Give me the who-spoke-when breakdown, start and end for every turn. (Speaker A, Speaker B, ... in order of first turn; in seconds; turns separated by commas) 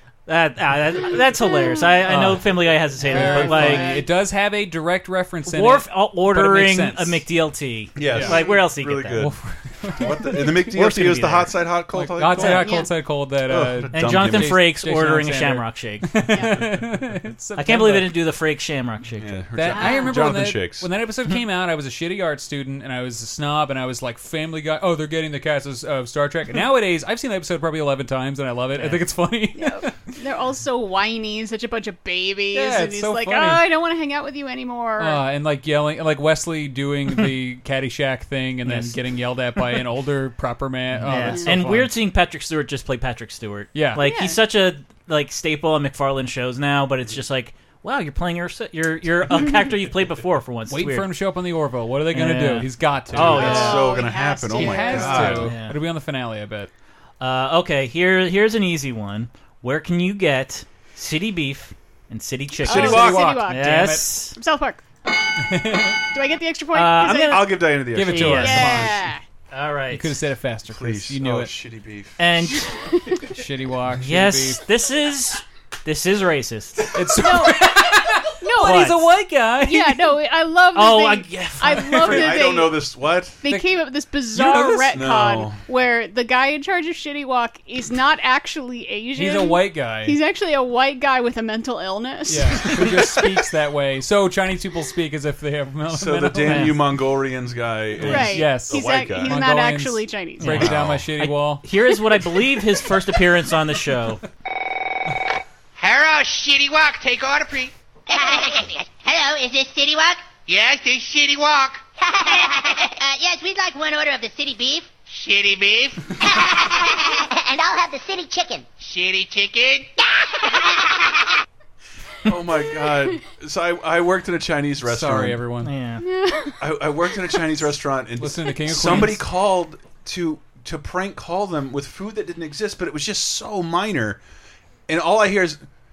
Speaker A: 0.3-4.0, Speaker B: 1.4-2.0, Speaker C: 2.0-7.2, Speaker B: 3.1-4.1, Speaker A: 5.5-9.2, Speaker D: 8.0-9.3, Speaker C: 8.1-8.4, Speaker C: 9.2-18.1, Speaker D: 9.9-12.8, Speaker A: 10.7-11.5, Speaker B: 12.4-12.9, Speaker D: 13.4-14.7, Speaker A: 13.9-16.1, Speaker B: 16.3-16.6, Speaker A: 17.6-19.4, Speaker D: 19.2-20.9, Speaker C: 19.5-29.9, Speaker B: 19.7-20.2, Speaker A: 28.8-29.0, Speaker B: 29.6-35.2, Speaker C: 32.5-33.6, Speaker C: 35.0-41.9, Speaker A: 38.6-39.0, Speaker A: 40.9-51.1, Speaker C: 43.7-44.0, Speaker B: 44.0-44.4, Speaker C: 50.7-53.8, Speaker A: 52.1-53.9, Speaker D: 53.1-55.5, Speaker B: 53.3-55.3, Speaker C: 54.5-56.7, Speaker A: 55.2-55.8, Speaker A: 57.2-64.3, Speaker C: 62.6-64.1, Speaker B: 62.6-64.8, Speaker C: 65.4-66.0, Speaker B: 66.1-67.6, Speaker A: 66.7-68.9, Speaker D: 67.0-68.8, Speaker C: 67.9-69.0, Speaker B: 68.3-69.2, Speaker A: 69.5-70.1, Speaker C: 69.9-71.5, Speaker D: 70.7-72.3, Speaker A: 72.2-72.7, Speaker B: 72.9-73.2, Speaker C: 73.3-74.6, Speaker A: 73.9-77.2, Speaker C: 76.9-80.1, Speaker B: 77.2-78.8, Speaker A: 78.6-79.0, Speaker B: 79.6-82.8, Speaker A: 80.7-82.3, Speaker C: 81.8-82.3, Speaker D: 82.0-83.4, Speaker B: 83.4-93.2, Speaker C: 83.5-83.7, Speaker C: 84.3-85.0, Speaker D: 84.5-85.6, Speaker C: 89.1-90.2, Speaker C: 92.3-96.8, Speaker D: 95.9-99.4, Speaker A: 96.5-96.7, Speaker B: 98.0-100.7, Speaker C: 98.0-101.6, Speaker A: 100.4-104.2, Speaker D: 100.6-101.0, Speaker E: 105.8-107.7, Speaker F: 108.1-110.2, Speaker E: 110.4-111.8, Speaker F: 112.0-114.9, Speaker E: 115.0-116.0, Speaker F: 116.2-118.7, Speaker E: 118.8-119.9, Speaker F: 120.5-121.1, Speaker D: 122.2-125.4, Speaker C: 124.8-125.7, Speaker A: 125.6-126.0, Speaker B: 126.0-126.5, Speaker D: 126.6-134.2, Speaker C: 128.2-129.2, Speaker D: 134.9-135.6